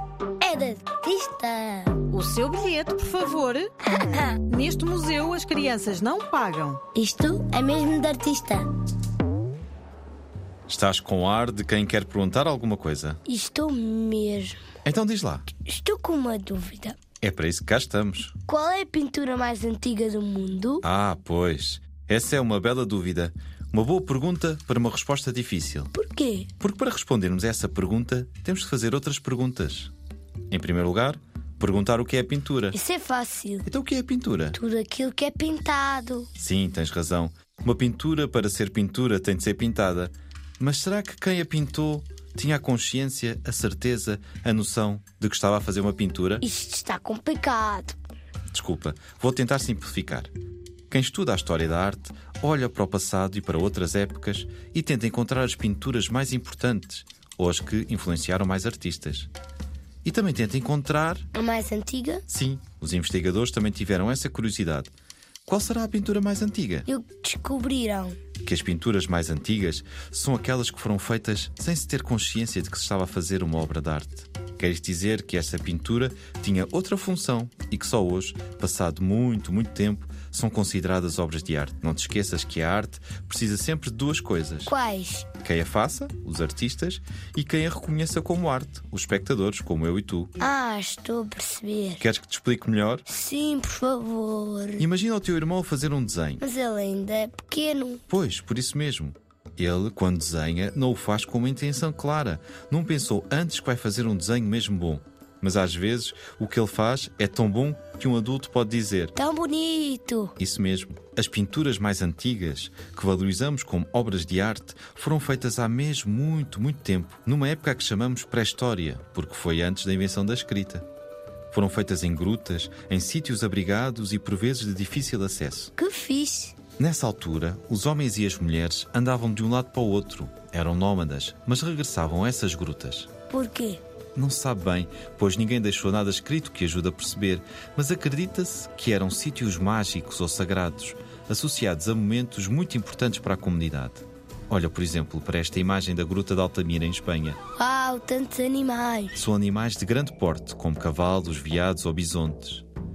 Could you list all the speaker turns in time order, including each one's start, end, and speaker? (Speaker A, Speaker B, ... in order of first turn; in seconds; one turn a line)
Speaker A: 0.4-1.9
Speaker B: 2.1-3.7
Speaker B: 4.5-6.8
Speaker A: 6.9-8.7
Speaker C: 10.7-13.2
Speaker A: 13.3-14.6
Speaker C: 14.8-15.5
Speaker A: 15.6-17.0
Speaker C: 17.2-18.3
Speaker A: 18.5-20.8
Speaker C: 20.8-25.9
Speaker A: 25.9-26.5
Speaker C: 26.6-29.9
Speaker C: 30.5-32.8
Speaker A: 32.7-33.7
Speaker C: 33.6-34.5
Speaker A: 34.5-36.3
Speaker C: 36.4-46.4
Speaker A: 46.4-48.0
Speaker C: 48.5-50.3
Speaker C: 50.9-59.3
Speaker C: 60.0-61.3
Speaker A: 61.3-62.2
Speaker C: 62.3-64.9
Speaker C: 65.5-66.9
Speaker A: 66.8-68.2
Speaker C: 68.4-84.7
Speaker A: 84.7-85.3
Speaker C: 85.4-90.3
Speaker A: 90.4-92.0
Speaker C: 92.0-93.0
Speaker A: 93.0-94.8
Speaker C: 94.8-96.4
Speaker A: 96.4-98.0
Speaker C: 98.1-109.1
Speaker A: 109.2-110.3
Speaker C: 110.4-120.8
Speaker C: 121.5-125.7
Speaker A: 125.8-126.5
Speaker C: 126.8-133.1
Speaker A: 133.3-133.8
Speaker C: 134.1-147.4
Speaker A: 147.6-149.2
Speaker C: 149.1-152.6